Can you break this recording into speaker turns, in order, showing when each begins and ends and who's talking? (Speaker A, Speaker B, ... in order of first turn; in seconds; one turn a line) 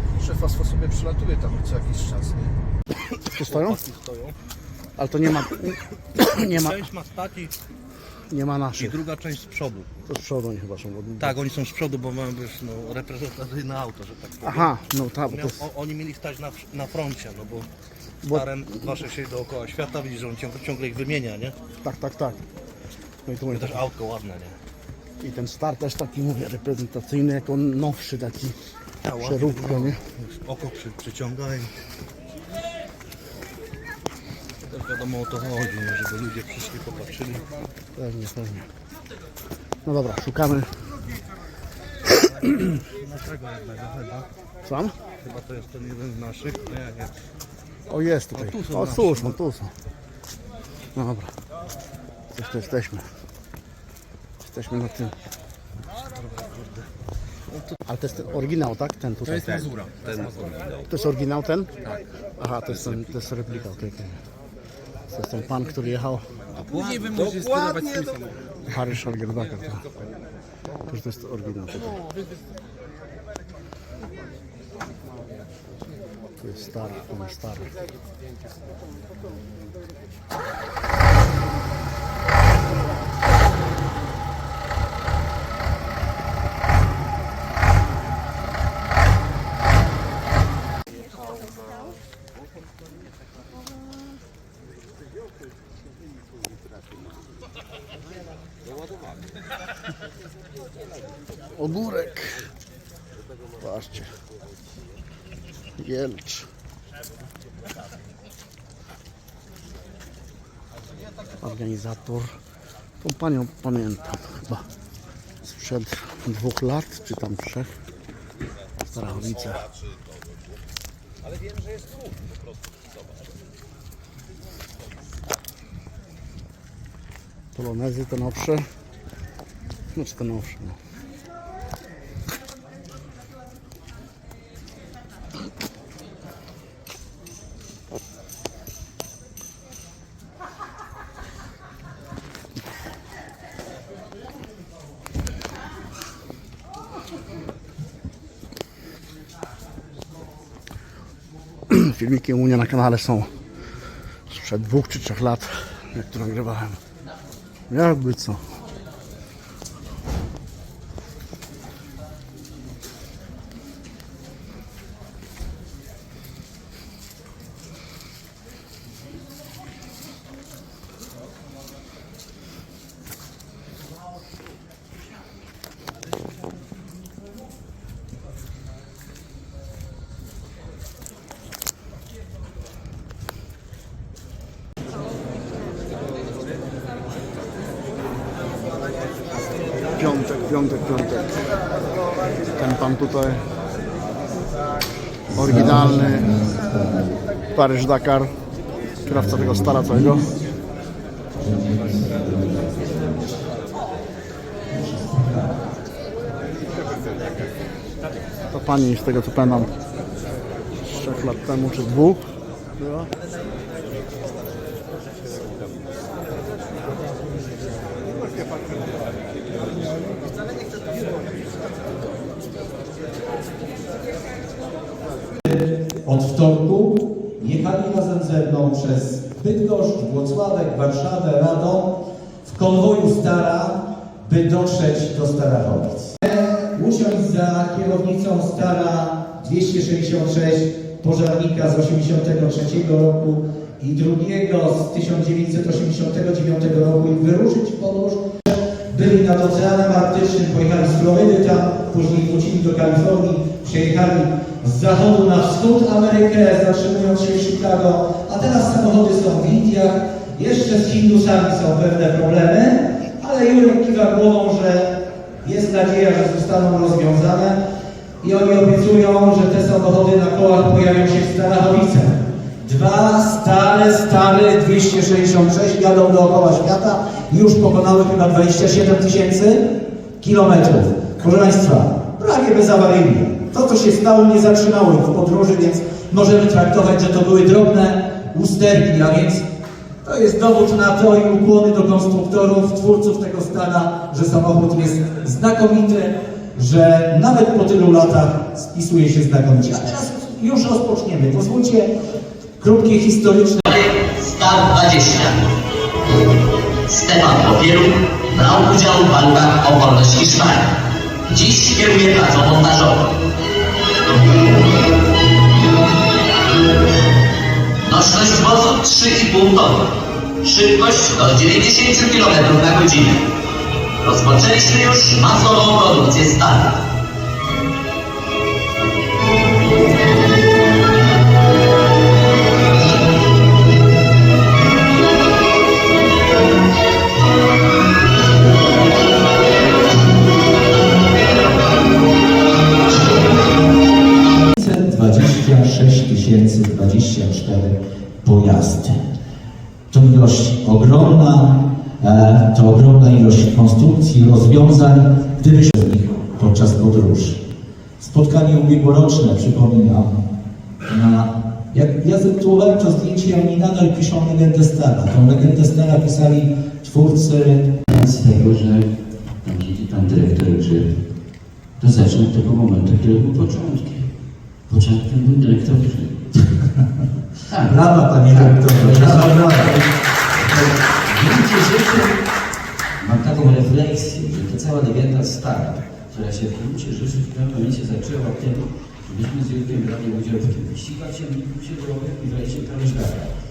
Speaker A: 0.2-2.6
Speaker B: 3.3-3.8
Speaker C: 3.5-4.3
Speaker B: 5.0-6.9
Speaker C: 6.7-7.5
Speaker B: 8.3-9.0
Speaker C: 8.9-9.9
Speaker B: 10.1-11.4
Speaker C: 11.2-14.6
Speaker B: 14.4-15.7
Speaker C: 15.3-17.7
Speaker B: 18.2-18.9
Speaker C: 18.4-21.6
Speaker B: 21.8-22.4
Speaker B: 23.2-23.9
Speaker C: 23.6-24.6
Speaker B: 25.2-28.6
Speaker C: 29.1-29.7
Speaker B: 29.2-30.0
Speaker C: 30.2-31.7
Speaker C: 34.7-37.4
Speaker B: 38.0-38.7
Speaker B: 39.9-40.9
Speaker B: 42.4-42.7
Speaker B: 44.6-45.0
Speaker C: 45.2-47.1
Speaker B: 47.9-49.7
Speaker C: 48.6-49.1
Speaker B: 50.9-51.3
Speaker B: 52.3-53.0
Speaker B: 54.4-55.1
Speaker B: 57.9-59.7
Speaker D: 59.9-60.3
Speaker B: 60.9-61.7
Speaker B: 62.4-64.2
Speaker B: 65.1-66.3
Speaker B: 67.0-67.5
Speaker B: 68.7-70.0
Speaker B: 70.9-72.0
Speaker B: 76.4-77.7
Speaker B: 101.5-102.5
Speaker B: 103.6-104.1
Speaker B: 105.8-106.5
Speaker B: 111.4-112.3
Speaker B: 113.0-114.7
Speaker B: 115.4-117.7
Speaker B: 118.8-119.7
Speaker B: 127.5-128.7
Speaker B: 129.9-130.8
Speaker B: 151.7-153.3
Speaker B: 154.3-156.8
Speaker B: 157.7-158.4
Speaker B: 190.0-191.3
Speaker B: 192.6-193.4
Speaker B: 195.3-196.3
Speaker D: 195.3-197.1
Speaker B: 197.5-198.3
Speaker B: 199.1-200.3
Speaker D: 199.1-200.2
Speaker D: 201.4-203.4
Speaker D: 204.9-205.4
Speaker B: 208.5-209.7
Speaker B: 210.8-212.2
Speaker B: 212.8-213.1
Speaker E: 225.5-267.6
Speaker E: 268.2-279.6
Speaker E: 280.2-289.5
Speaker E: 290.0-301.9
Speaker E: 302.6-303.6
Speaker F: 303.7-305.4
Speaker F: 306.9-310.7
Speaker F: 311.3-313.1
Speaker F: 317.9-319.9
Speaker F: 320.4-323.2
Speaker F: 324.0-326.7
Speaker E: 344.6-349.0
Speaker E: 349.9-357.4
Speaker E: 358.0-360.2
Speaker E: 360.9-367.7
Speaker G: 368.0-368.9
Speaker G: 369.4-370.9
Speaker D: 370.2-370.8
Speaker G: 371.8-374.1
Speaker D: 373.2-374.0
Speaker G: 374.7-376.1
Speaker E: 377.6-379.8
Speaker D: 378.6-379.5
Speaker G: 378.9-379.9
Speaker G: 380.6-382.1
Speaker G: 383.0-393.0
Speaker D: 384.0-385.0
Speaker D: 385.6-386.0
Speaker D: 386.6-393.3